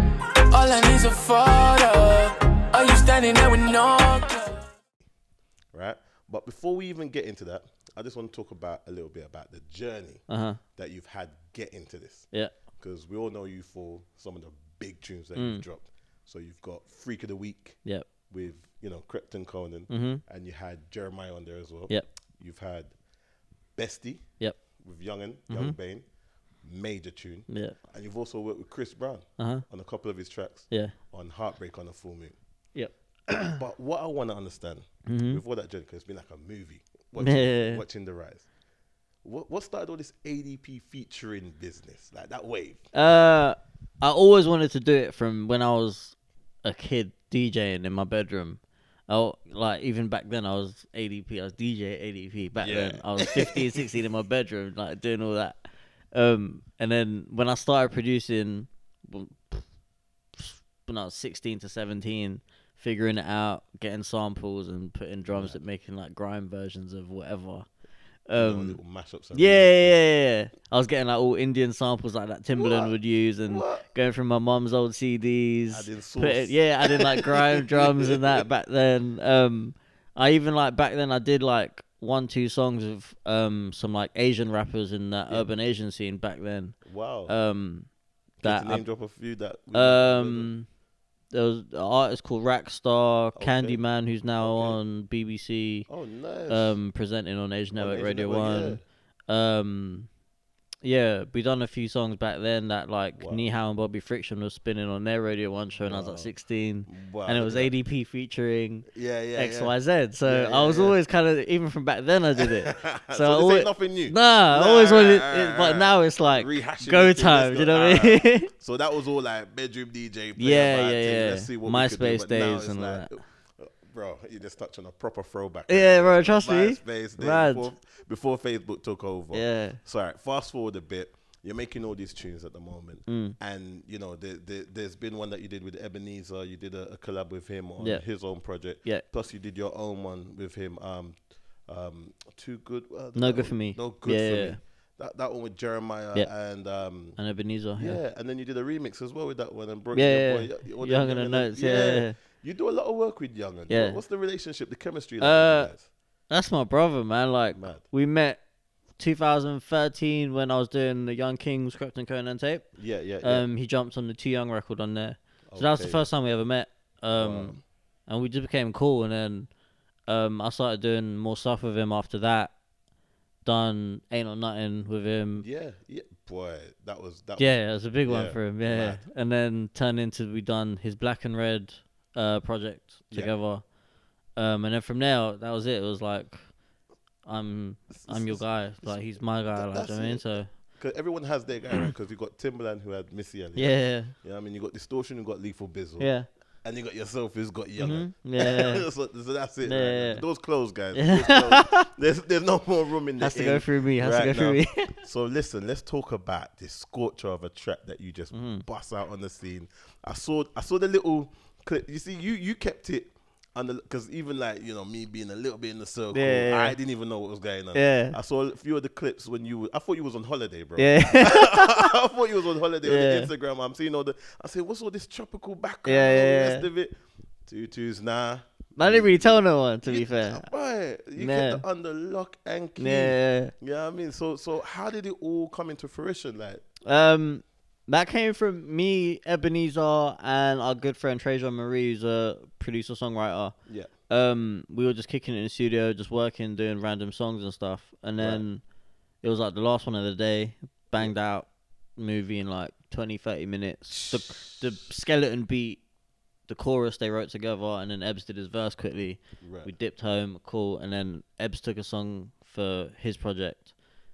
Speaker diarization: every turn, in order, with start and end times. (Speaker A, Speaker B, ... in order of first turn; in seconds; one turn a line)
Speaker A: 0.5-4.7
Speaker B: 5.7-10.2
Speaker C: 10.3-10.6
Speaker B: 10.8-22.9
Speaker C: 15.3-15.6
Speaker C: 19.9-20.2
Speaker B: 23.8-26.0
Speaker C: 25.5-25.8
Speaker B: 26.6-32.3
Speaker C: 27.5-27.8
Speaker C: 29.4-29.6
Speaker C: 30.7-30.9
Speaker C: 32.7-33.6
Speaker B: 33.5-38.5
Speaker C: 35.0-35.4
Speaker C: 37.2-37.8
Speaker B: 39.2-42.9
Speaker C: 42.9-55.6
Speaker B: 52.6-53.8
Speaker C: 56.1-59.7
Speaker C: 60.3-67.7
Speaker B: 65.3-65.6
Speaker C: 68.3-68.8
Speaker B: 68.3-70.0
Speaker C: 69.3-87.9
Speaker B: 72.5-72.9
Speaker B: 73.5-73.8
Speaker B: 75.7-78.4
Speaker B: 86.8-87.3
Speaker C: 88.4-88.8
Speaker B: 88.4-90.5
Speaker C: 89.7-90.7
Speaker C: 91.3-95.9
Speaker B: 93.3-93.8
Speaker B: 94.4-94.8
Speaker B: 95.9-96.8
Speaker C: 96.5-100.1
Speaker B: 97.7-98.8
Speaker C: 100.8-118.5
Speaker B: 103.2-103.5
Speaker B: 105.8-106.3
Speaker B: 106.9-107.7
Speaker B: 108.9-111.0
Speaker B: 112.4-147.2
Speaker C: 120.4-123.1
Speaker C: 125.7-127.7
Speaker C: 129.3-129.8
Speaker C: 133.1-133.4
Speaker C: 137.8-138.1
Speaker C: 143.1-144.6
Speaker C: 147.2-148.0
Speaker B: 147.8-155.9
Speaker C: 149.9-152.2
Speaker C: 153.7-154.0
Speaker C: 155.2-155.7
Speaker C: 156.3-158.4
Speaker B: 157.5-157.8
Speaker C: 159.0-169.5
Speaker B: 162.8-163.5
Speaker B: 165.5-166.1
Speaker B: 167.2-167.6
Speaker C: 170.1-172.5
Speaker C: 173.4-175.4
Speaker B: 175.4-179.0
Speaker C: 177.4-183.7
Speaker C: 184.3-186.6
Speaker C: 187.2-190.5
Speaker B: 187.9-236.6
Speaker C: 193.5-194.1
Speaker C: 196.0-196.3
Speaker C: 197.8-198.9
Speaker C: 199.6-200.3
Speaker C: 200.9-201.9
Speaker C: 203.2-204.9
Speaker C: 208.3-208.7
Speaker C: 216.1-216.8
Speaker C: 217.7-218.2
Speaker C: 220.8-221.9
Speaker C: 222.8-223.3
Speaker C: 225.8-226.7
Speaker C: 228.8-230.4
Speaker C: 231.2-231.6
Speaker C: 232.8-233.5
Speaker C: 236.8-248.6
Speaker B: 243.7-243.9
Speaker B: 248.2-248.4
Speaker C: 249.2-255.8
Speaker B: 253.9-254.7
Speaker C: 256.5-263.7
Speaker B: 259.4-259.7